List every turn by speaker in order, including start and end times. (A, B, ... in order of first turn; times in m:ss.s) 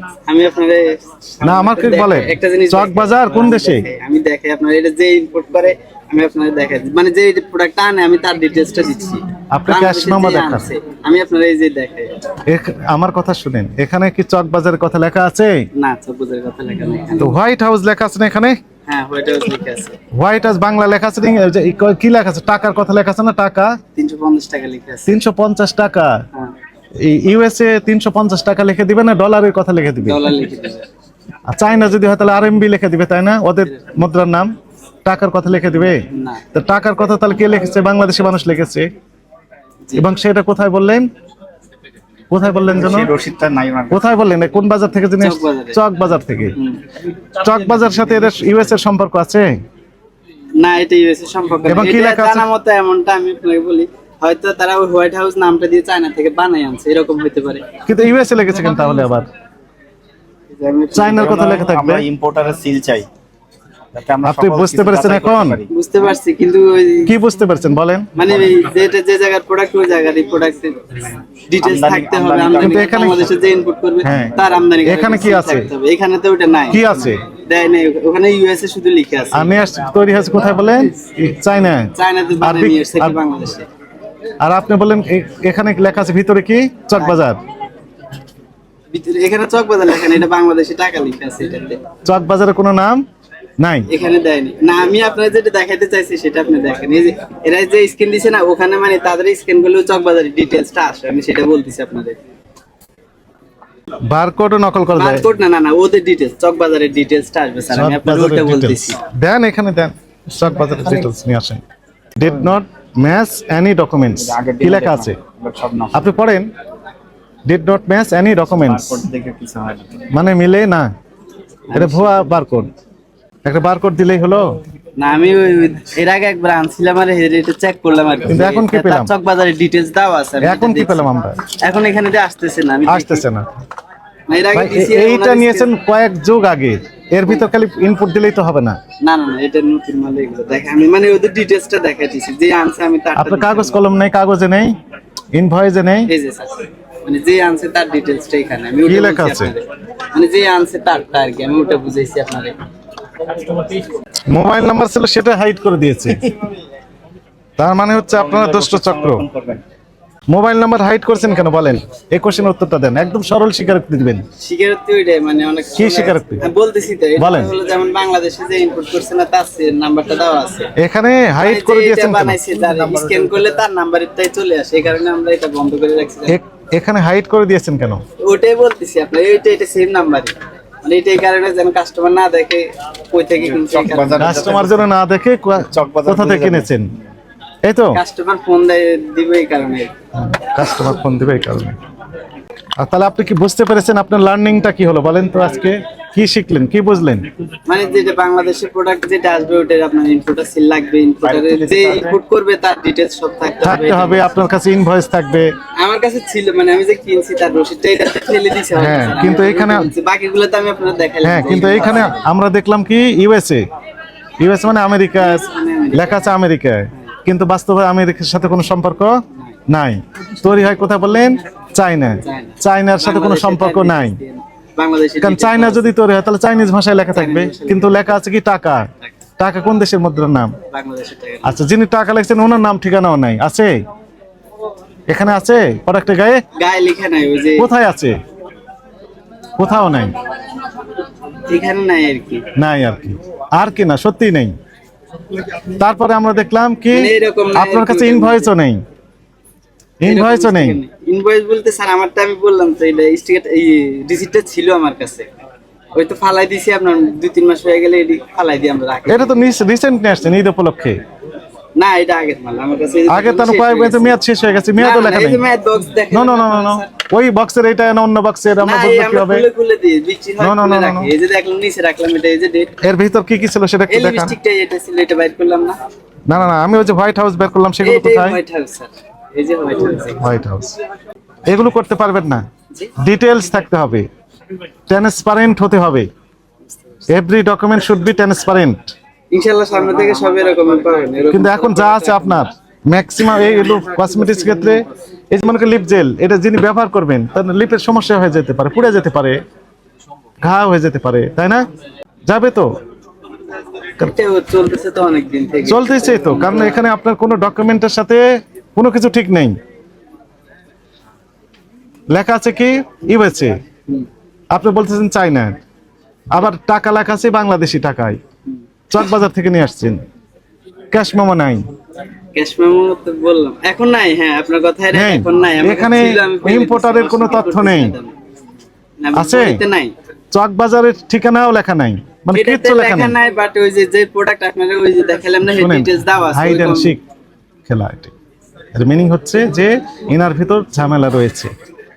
0:00.3-0:12.1 A
0:01.4-0:03.9 B
0:09.5-0:10.7 B
0:12.5-0:15.6 B
0:15.8-0:17.4 A
0:17.2-0:18.6 B
0:18.9-0:20.0 A
0:20.1-0:23.7 B
0:24.0-0:25.2 A
0:25.1-0:26.2 B
0:27.0-0:30.2 B
0:30.0-0:30.9 A
0:31.5-0:36.0 B
0:36.1-0:36.4 A
0:36.5-0:38.9 B
0:40.0-0:41.1 B
0:42.3-0:43.1 B
0:42.8-0:44.0 C
0:43.9-0:46.6 B
0:45.2-0:45.8 A
0:46.6-0:46.8 A
0:47.4-0:49.5 B
0:50.6-0:57.7 A
0:51.7-0:52.5 B
0:57.9-0:59.3 B
1:00.5-1:01.6 A
1:00.9-1:02.1 B
1:01.2-1:03.1 C
1:04.0-1:05.7 C
1:04.2-1:05.6 B
1:05.7-1:07.2 A
1:07.1-1:08.2 B
1:08.2-1:10.8 A
1:11.5-1:19.6 A
1:11.6-1:13.5 C
1:12.6-1:13.3 B
1:14.0-1:15.7 B
1:14.1-1:14.6 C
1:16.7-1:17.2 B
1:19.3-1:21.9 B
1:21.9-1:23.7 A
1:22.4-1:23.2 B
1:24.4-1:27.4 B
1:28.9-1:31.8 A
1:32.0-1:33.0 B
1:33.6-1:33.9 B
1:33.9-1:42.2 A
1:44.1-1:45.3 B
1:45.0-1:49.0 A
1:47.7-1:51.6 B
1:52.2-1:55.2 B
1:54.2-1:56.2 C
1:55.9-1:56.5 B
1:57.5-1:59.0 B
1:58.5-2:00.1 C
2:00.1-2:00.9 B
2:01.7-2:02.3 A
2:01.7-2:02.7 B
2:03.4-2:04.5 B
2:05.0-2:13.2 A
2:08.3-2:09.1 B
2:10.4-2:11.4 B
2:12.9-2:13.5 B
2:14.3-2:15.7 A
2:14.5-2:18.8 B
2:19.0-2:23.8 A
2:23.2-2:24.8 B
2:25.3-2:26.1 B
2:26.1-2:32.6 A
2:28.9-2:29.5 B
2:34.3-2:36.3 B
2:37.6-2:39.3 B
2:38.1-2:39.6 C
2:40.3-2:44.2 B
2:44.4-2:50.7 A
2:45.8-2:46.4 B
2:47.2-2:47.5 B
2:50.8-2:52.4 B
2:51.4-2:56.4 A
2:56.3-2:58.0 B
2:58.2-3:00.3 A
3:00.8-3:04.7 A
3:03.4-3:04.9 C
3:04.2-3:06.9 B
3:05.6-3:06.8 C
3:07.7-3:08.0 B
3:07.9-3:09.9 A
3:10.3-3:11.8 B
3:12.8-3:17.3 B
3:17.7-3:24.3 A
3:21.2-3:22.2 C
3:23.6-3:25.5 B
3:25.8-3:32.2 A
3:28.8-3:29.9 B
3:31.2-3:33.6 B
3:34.4-3:35.4 B
3:35.2-3:36.2 A
3:35.9-3:44.2 B
3:42.2-3:45.9 A
3:45.2-3:48.9 B
3:47.1-3:48.2 A
3:49.4-3:50.5 B
3:50.7-3:51.6 A
3:51.4-3:53.8 B
3:55.1-3:56.4 B
3:56.6-3:57.7 A
3:57.6-3:58.2 B
3:59.6-4:00.2 B
4:01.5-4:02.4 A
4:02.6-4:04.5 B
4:05.5-4:08.8 B
4:06.9-4:08.5 A
4:10.0-4:10.8 B
4:10.0-4:15.3 A
4:16.0-4:19.5 A
4:19.1-4:21.0 B
4:21.8-4:24.2 A
4:23.1-4:25.4 B
4:24.8-4:26.9 A
4:26.1-4:29.5 B
4:28.6-4:32.7 A
4:30.4-4:31.1 B
4:32.8-4:34.3 B
4:33.9-4:35.8 A
4:36.3-4:38.4 B
4:37.8-4:40.3 A
4:40.2-4:40.8 B
4:41.5-4:42.4 B
4:43.0-4:44.1 B
4:44.9-4:46.1 B
4:47.1-4:48.9 B
4:49.3-4:52.5 A
4:51.3-4:59.4 B
4:53.4-4:54.9 A
5:00.4-5:01.6 B
5:02.3-5:02.7 B
5:04.0-5:06.8 A
5:05.7-5:09.6 B
5:12.1-5:13.6 B
5:14.5-5:15.6 B
5:16.3-5:18.2 B
5:18.9-5:20.0 B
5:20.9-5:21.6 B
5:22.3-5:28.1 A
5:24.9-5:28.0 B
5:29.0-5:29.9 A
5:29.1-5:29.6 B
5:30.3-5:33.2 B
5:32.3-5:37.0 A
5:35.5-5:37.0 B
5:37.7-5:38.1 B
5:38.8-5:41.5 B